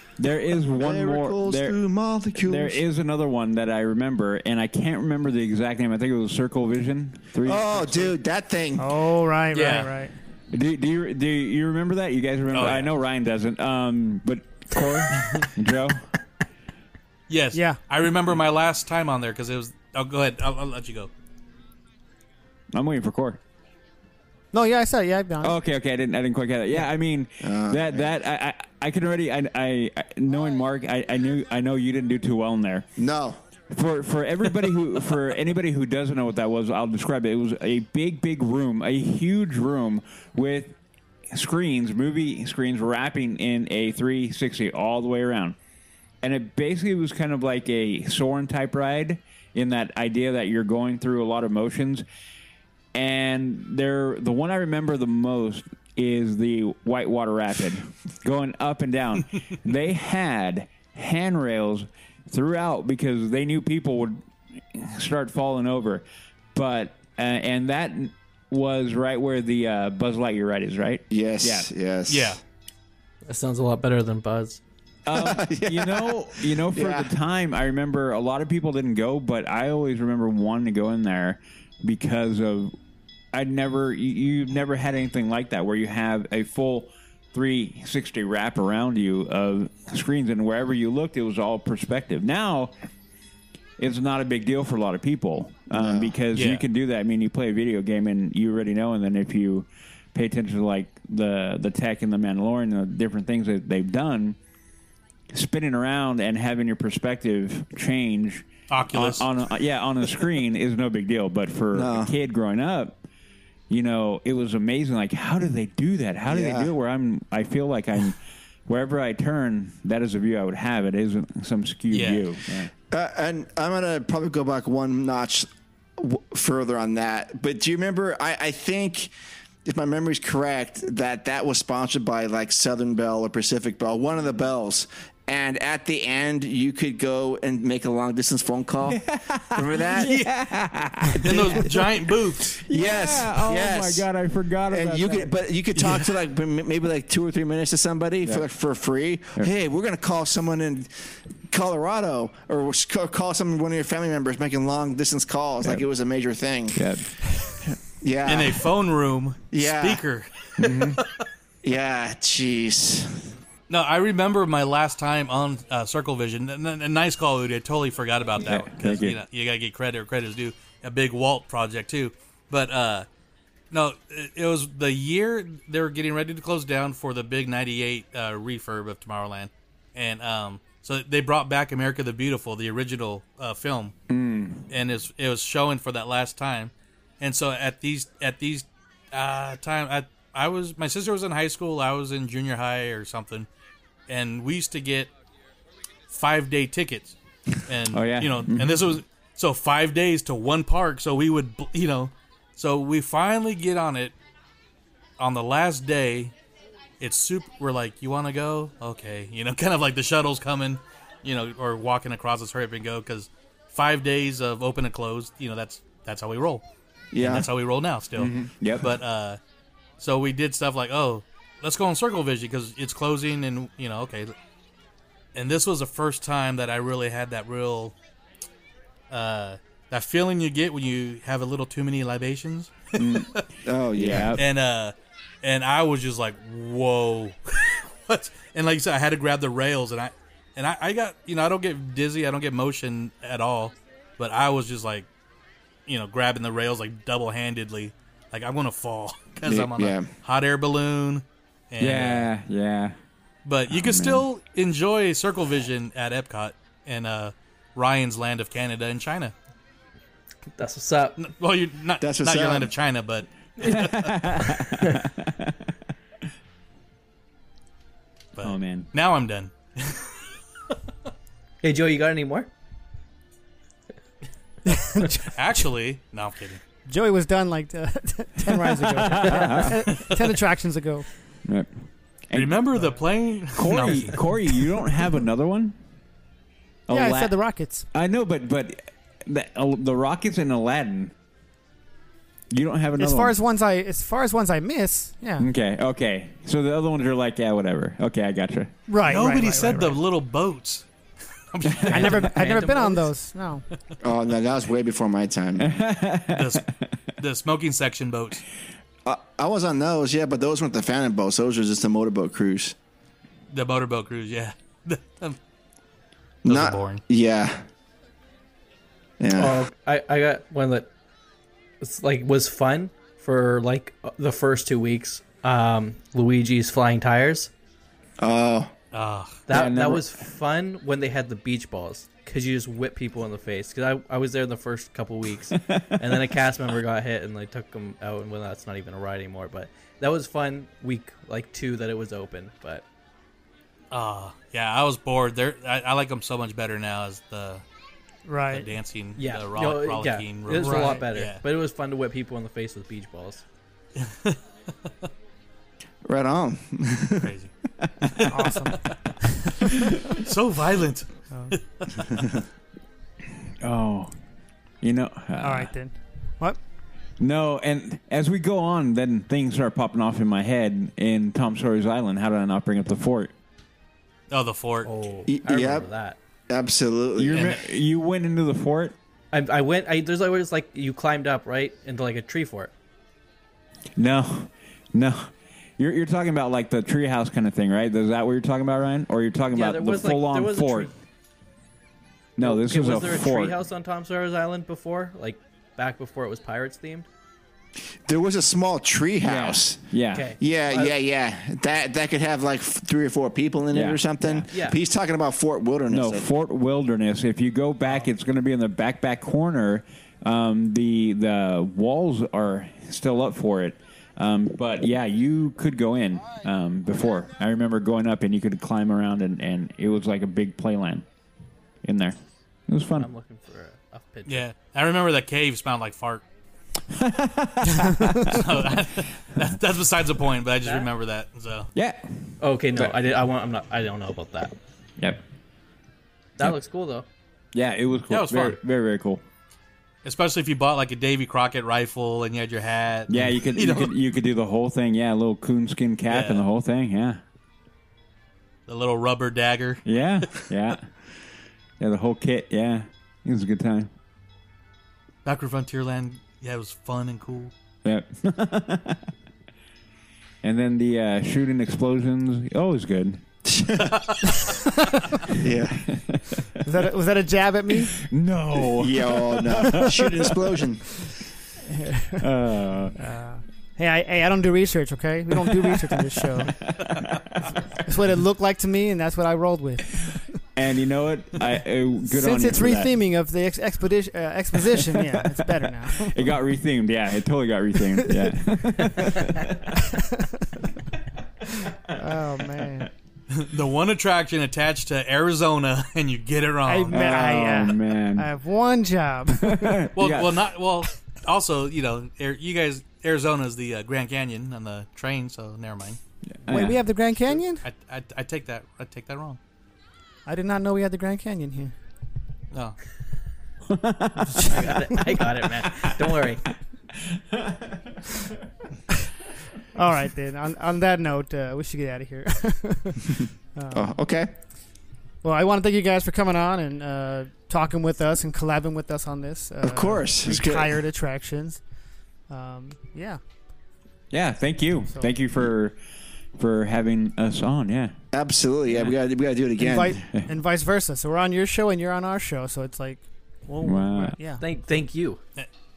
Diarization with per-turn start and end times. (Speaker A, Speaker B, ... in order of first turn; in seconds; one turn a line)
Speaker A: 0.2-1.8
Speaker B: 0.8-2.8
Speaker A: 2.3-8.1
Speaker B: 7.4-8.9
Speaker C: 8.8-10.1
Speaker D: 9.5-9.9
Speaker A: 10.5-16.0
Speaker D: 12.5-12.9
Speaker D: 17.3-21.1
Speaker A: 22.7-23.4
Speaker C: 24.5-25.6
Speaker A: 25.4-32.9
Speaker B: 27.4-28.1
Speaker B: 33.0-33.4
Speaker A: 33.7-40.8
Speaker A: 41.3-45.5
Speaker A: 46.2-52.0
Speaker A: 52.9-66.0
Speaker A: 66.5-71.7
Speaker B: 71.1-72.4
Speaker D: 72.1-72.4
Speaker E: 73.3-74.6
Speaker A: 75.0-82.7
Speaker B: 75.1-77.1
Speaker A: 83.3-92.7
Speaker A: 93.8-104.4
Speaker B: 95.7-96.1
Speaker D: 96.3-96.6
Speaker A: 105.3-113.0
Speaker D: 108.7-109.3
Speaker B: 111.7-112.1
Speaker A: 113.7-122.7
Speaker B: 116.3-116.7
Speaker D: 121.9-122.2
Speaker B: 122.9-125.5
Speaker B: 126.0-129.1
Speaker B: 129.6-139.0
Speaker A: 138.8-141.6
Speaker B: 139.5-140.1
Speaker D: 140.0-140.3
Speaker D: 141.2-142.6
Speaker A: 142.7-145.3
Speaker B: 142.7-144.0
Speaker B: 144.7-150.9
Speaker D: 145.8-146.1
Speaker B: 151.5-156.8
Speaker A: 156.7-157.0
Speaker B: 157.7-158.6
Speaker D: 158.2-161.1
Speaker B: 159.5-160.0
Speaker A: 160.6-161.0
Speaker B: 161.6-163.3
Speaker D: 163.7-173.1
Speaker A: 168.4-169.2
Speaker D: 173.7-183.9
Speaker A: 184.1-184.7
Speaker D: 184.7-193.5
Speaker D: 194.1-195.1
Speaker D: 196.1-204.1
Speaker A: 197.9-199.0
Speaker D: 205.2-206.3
Speaker D: 207.0-216.6
Speaker B: 217.1-217.5
Speaker D: 217.2-219.4
Speaker A: 218.2-218.9
Speaker D: 220.0-224.3
Speaker D: 225.3-227.9
Speaker D: 229.1-233.4
Speaker A: 232.9-233.4
Speaker B: 233.7-234.4
Speaker A: 233.9-234.4
Speaker D: 234.3-245.1
Speaker D: 245.9-252.3
Speaker B: 249.4-250.1
Speaker A: 251.8-252.9
Speaker D: 253.4-259.3
Speaker A: 253.7-254.2
Speaker E: 260.6-261.2
Speaker D: 261.2-264.1
Speaker B: 262.0-262.7
Speaker E: 263.6-263.9
Speaker A: 263.6-265.7
Speaker D: 268.4-270.1
Speaker A: 268.4-268.9
Speaker E: 271.6-272.5
Speaker C: 274.7-275.3
Speaker D: 275.3-276.6
Speaker C: 276.9-281.1
Speaker A: 278.5-279.8
Speaker D: 279.6-280.3
Speaker A: 282.3-282.8
Speaker D: 282.3-284.2
Speaker A: 283.5-285.8
Speaker A: 286.9-287.4
Speaker C: 286.9-287.9
Speaker A: 287.9-291.1
Speaker A: 292.5-293.3
Speaker C: 293.0-295.5
Speaker A: 295.4-298.7
Speaker C: 298.9-300.0
Speaker D: 299.1-300.8
Speaker D: 301.5-303.1
Speaker A: 301.7-302.2
Speaker C: 301.9-303.6
Speaker B: 304.0-305.7
Speaker A: 305.6-306.6
Speaker D: 306.3-306.6
Speaker D: 307.2-308.4
Speaker B: 309.0-312.7
Speaker D: 313.5-315.4
Speaker B: 316.4-317.6
Speaker D: 316.4-317.0
Speaker B: 319.2-319.6
Speaker E: 319.3-320.9
Speaker E: 321.8-327.5
Speaker B: 328.2-328.7
Speaker D: 328.9-329.4
Speaker E: 329.5-342.8
Speaker A: 329.5-330.1
Speaker A: 335.6-336.3
Speaker D: 343.9-347.6
Speaker C: 348.2-348.7
Speaker D: 348.5-351.4
Speaker E: 349.2-353.4
Speaker D: 353.9-354.4
Speaker B: 356.1-357.3
Speaker D: 357.2-359.1
Speaker C: 358.3-359.9
Speaker D: 360.2-361.9
Speaker A: 363.6-364.1
Speaker A: 364.8-365.7
Speaker C: 365.4-366.6
Speaker A: 367.2-373.3
Speaker D: 374.3-374.9
Speaker E: 374.8-376.2
Speaker B: 375.3-375.9
Speaker B: 376.5-377.5
Speaker A: 377.2-378.9
Speaker D: 377.3-377.6
Speaker E: 379.3-382.7
Speaker A: 384.0-390.9
Speaker E: 389.5-390.9
Speaker A: 392.4-393.6
Speaker E: 392.4-397.1
Speaker B: 398.1-399.8
Speaker A: 399.2-400.3
Speaker E: 400.1-400.9
Speaker B: 400.4-406.2
Speaker A: 403.7-404.5
Speaker E: 404.5-404.8
Speaker A: 405.9-421.0
Speaker A: 421.8-422.2
Speaker A: 422.7-423.1
Speaker E: 423.0-424.5
Speaker D: 424.3-426.2
Speaker A: 426.9-428.7
Speaker D: 428.2-431.7
Speaker A: 431.7-432.9
Speaker E: 432.4-434.6
Speaker A: 435.0-435.2
Speaker E: 436.4-437.1
Speaker A: 437.5-439.2
Speaker D: 438.1-438.6
Speaker D: 440.0-443.9
Speaker A: 443.1-447.2
Speaker D: 446.1-446.4
Speaker D: 448.7-450.5
Speaker A: 449.8-450.9
Speaker A: 451.8-453.9
Speaker D: 455.2-457.5
Speaker A: 457.8-459.1
Speaker A: 460.4-463.2
Speaker B: 463.4-464.0
Speaker D: 463.9-464.2
Speaker B: 465.3-465.9
Speaker A: 465.9-466.6
Speaker C: 466.6-467.9
Speaker A: 467.9-470.3
Speaker B: 468.7-470.8
Speaker C: 469.7-470.0
Speaker C: 471.7-472.3
Speaker A: 472.2-472.9
Speaker C: 473.0-476.5
Speaker A: 475.3-477.8
Speaker C: 477.8-480.2
Speaker A: 480.5-482.9
Speaker C: 482.1-486.2
Speaker A: 484.7-489.8
Speaker C: 488.1-488.3
Speaker C: 489.7-490.6
Speaker A: 491.9-492.9
Speaker C: 491.9-492.9
Speaker D: 493.3-497.4
Speaker C: 496.7-499.9
Speaker A: 496.9-498.3
Speaker A: 499.4-500.4
Speaker D: 499.9-506.0
Speaker A: 506.2-506.8
Speaker C: 506.5-507.6
Speaker D: 507.6-509.4
Speaker C: 510.2-511.7
Speaker A: 513.7-518.1
Speaker C: 514.3-515.2
Speaker E: 514.5-516.4
Speaker C: 519.7-524.0
Speaker B: 523.7-524.3
Speaker C: 525.2-531.6
Speaker B: 529.6-530.8
Speaker C: 532.3-533.2
Speaker A: 534.1-535.8
Speaker A: 536.4-537.9
Speaker B: 538.1-540.0
Speaker C: 539.6-544.4
Speaker A: 543.6-544.1
Speaker E: 544.4-545.2